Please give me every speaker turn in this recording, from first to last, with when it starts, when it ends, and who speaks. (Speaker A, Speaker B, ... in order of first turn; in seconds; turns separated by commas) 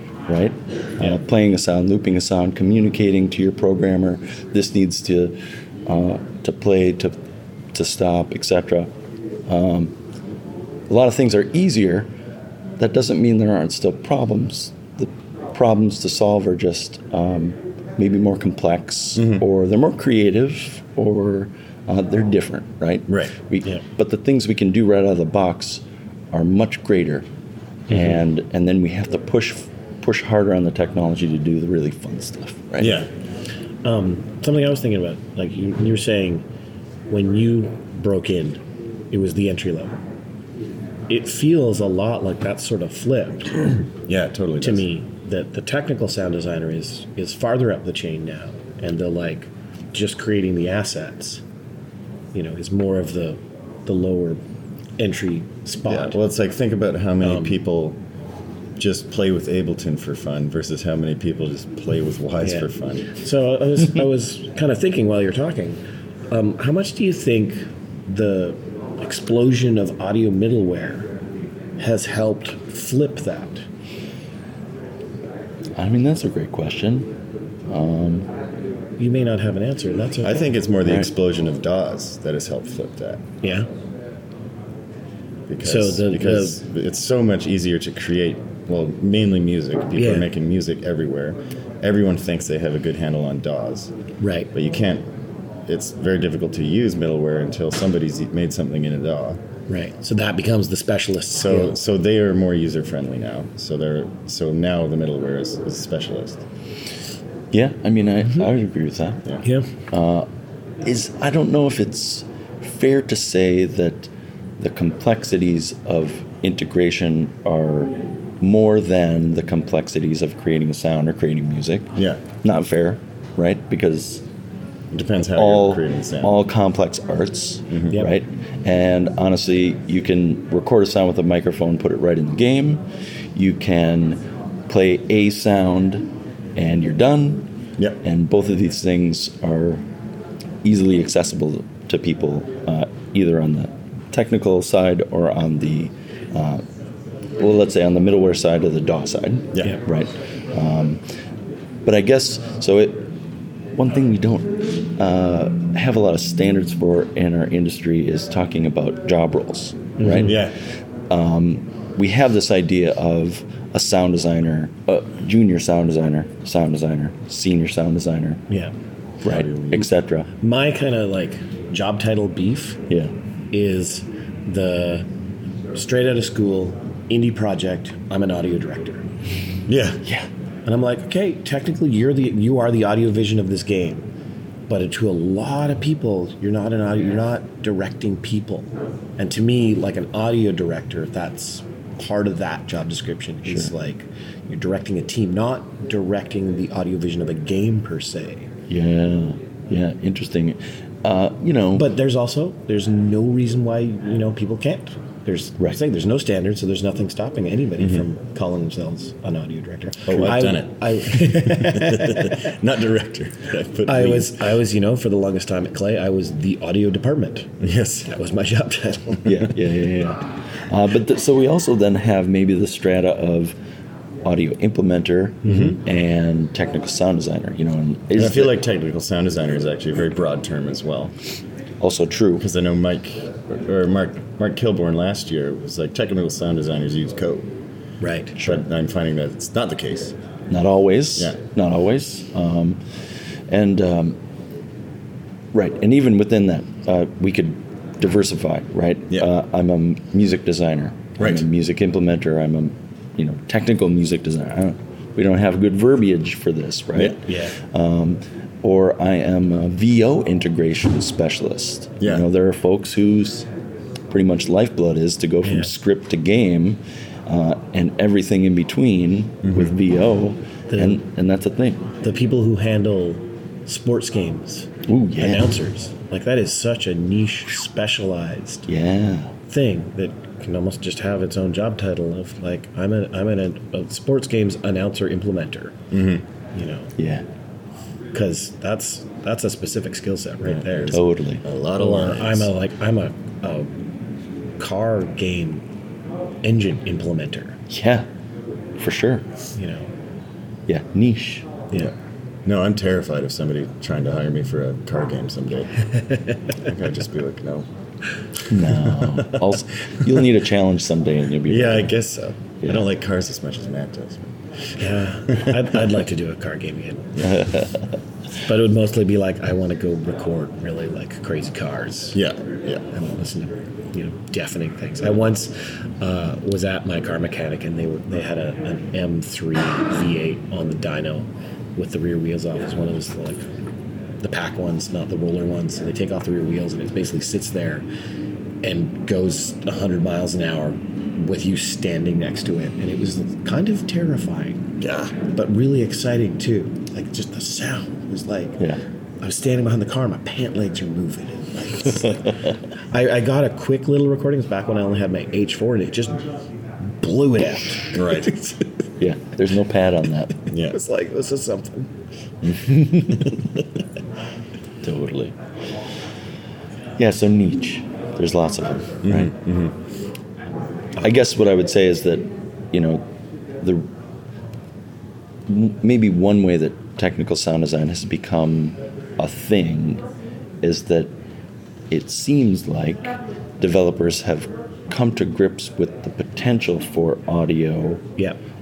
Speaker A: 0.3-7.2, Speaker A: 7.7-8.9, Speaker A: 9.5-9.9, Speaker A: 10.9-12.1, Speaker A: 12.8-27.2, Speaker B: 19.1-19.4, Speaker B: 23.1-23.3, Speaker A: 27.9-33.0, Speaker B: 32.8-33.1, Speaker C: 33.8-36.4, Speaker C: 37.1-40.0, Speaker C: 41.1-43.6, Speaker B: 44.1-44.8, Speaker C: 44.6-51.4, Speaker C: 52.3-54.4, Speaker C: 55.0-56.1, Speaker B: 55.9-58.0, Speaker C: 57.2-57.5, Speaker B: 58.8-63.1, Speaker C: 62.4-71.1, Speaker C: 71.8-73.6, Speaker A: 75.8-77.1, Speaker A: 77.7-78.3, Speaker C: 79.0-80.5, Speaker B: 80.2-83.2, Speaker C: 83.4-83.7, Speaker B: 85.5-93.9, Speaker C: 85.6-86.6, Speaker C: 90.0-90.3, Speaker C: 94.2-94.5, Speaker B: 94.5-95.0, Speaker B: 95.7-99.4, Speaker C: 99.7-101.7, Speaker B: 101.4-106.4, Speaker A: 107.5-109.3, Speaker C: 109.4-109.7, Speaker A: 109.9-110.3, Speaker A: 110.8-124.2, Speaker B: 122.0-122.2, Speaker B: 124.9-126.4, Speaker A: 125.3-132.8, Speaker B: 127.7-127.9, Speaker A: 133.3-137.5, Speaker A: 138.0-139.8, Speaker A: 140.6-146.6, Speaker A: 147.4-151.0, Speaker A: 151.8-153.1, Speaker A: 153.8-160.5, Speaker C: 160.0-160.4, Speaker B: 160.2-160.5, Speaker A: 161.1-168.4, Speaker A: 169.2-170.3, Speaker B: 169.2-169.9, Speaker C: 170.4-172.8, Speaker C: 173.5-175.1, Speaker C: 175.7-179.0, Speaker B: 179.7-180.0, Speaker C: 180.7-184.1, Speaker C: 184.7-198.5, Speaker A: 198.7-201.9, Speaker C: 201.7-212.5, Speaker B: 210.1-214.4, Speaker C: 213.8-219.6, Speaker B: 217.6-218.1, Speaker A: 219.2-223.6, Speaker A: 224.2-228.5, Speaker C: 225.4-225.8, Speaker B: 228.1-231.1, Speaker A: 231.8-232.4, Speaker B: 232.4-237.5, Speaker C: 238.0-238.3, Speaker B: 238.4-240.2, Speaker A: 240.5-242.8, Speaker A: 243.5-244.2, Speaker A: 245.5-263.5, Speaker B: 251.2-251.4, Speaker C: 257.2-257.6, Speaker B: 262.0-262.2, Speaker A: 264.1-271.8, Speaker C: 265.4-265.7, Speaker B: 269.4-269.7, Speaker C: 270.7-271.0, Speaker C: 272.0-278.7, Speaker A: 274.9-275.5, Speaker A: 278.7-279.3, Speaker C: 279.5-285.8, Speaker B: 285.9-286.2, Speaker C: 286.5-286.9, Speaker A: 287.0-287.2, Speaker C: 288.1-291.0, Speaker B: 290.4-292.5, Speaker A: 290.9-291.4, Speaker C: 291.8-293.7, Speaker C: 294.6-295.6, Speaker C: 296.4-297.6, Speaker A: 297.7-298.1, Speaker A: 298.8-299.2, Speaker C: 299.6-299.9, Speaker A: 300.7-301.5, Speaker B: 302.4-305.7, Speaker B: 306.6-307.6, Speaker A: 308.5-311.9, Speaker B: 311.4-314.4, Speaker C: 314.8-317.3, Speaker B: 315.3-315.7, Speaker A: 317.2-317.8, Speaker C: 318.4-322.2, Speaker B: 322.1-322.9, Speaker C: 322.9-333.4, Speaker C: 334.2-337.8, Speaker C: 338.6-344.6, Speaker B: 344.8-345.1, Speaker C: 345.2-348.6, Speaker C: 349.2-352.2, Speaker C: 352.9-356.2, Speaker C: 357.0-358.7, Speaker B: 357.9-358.3, Speaker A: 359.0-360.4, Speaker B: 360.5-360.8, Speaker C: 360.5-361.9, Speaker A: 362.4-363.4, Speaker A: 364.8-365.3, Speaker A: 367.0-369.3, Speaker B: 369.0-369.7, Speaker A: 371.0-373.0, Speaker A: 373.6-373.9, Speaker A: 375.5-380.0, Speaker A: 380.6-381.1, Speaker A: 381.9-388.1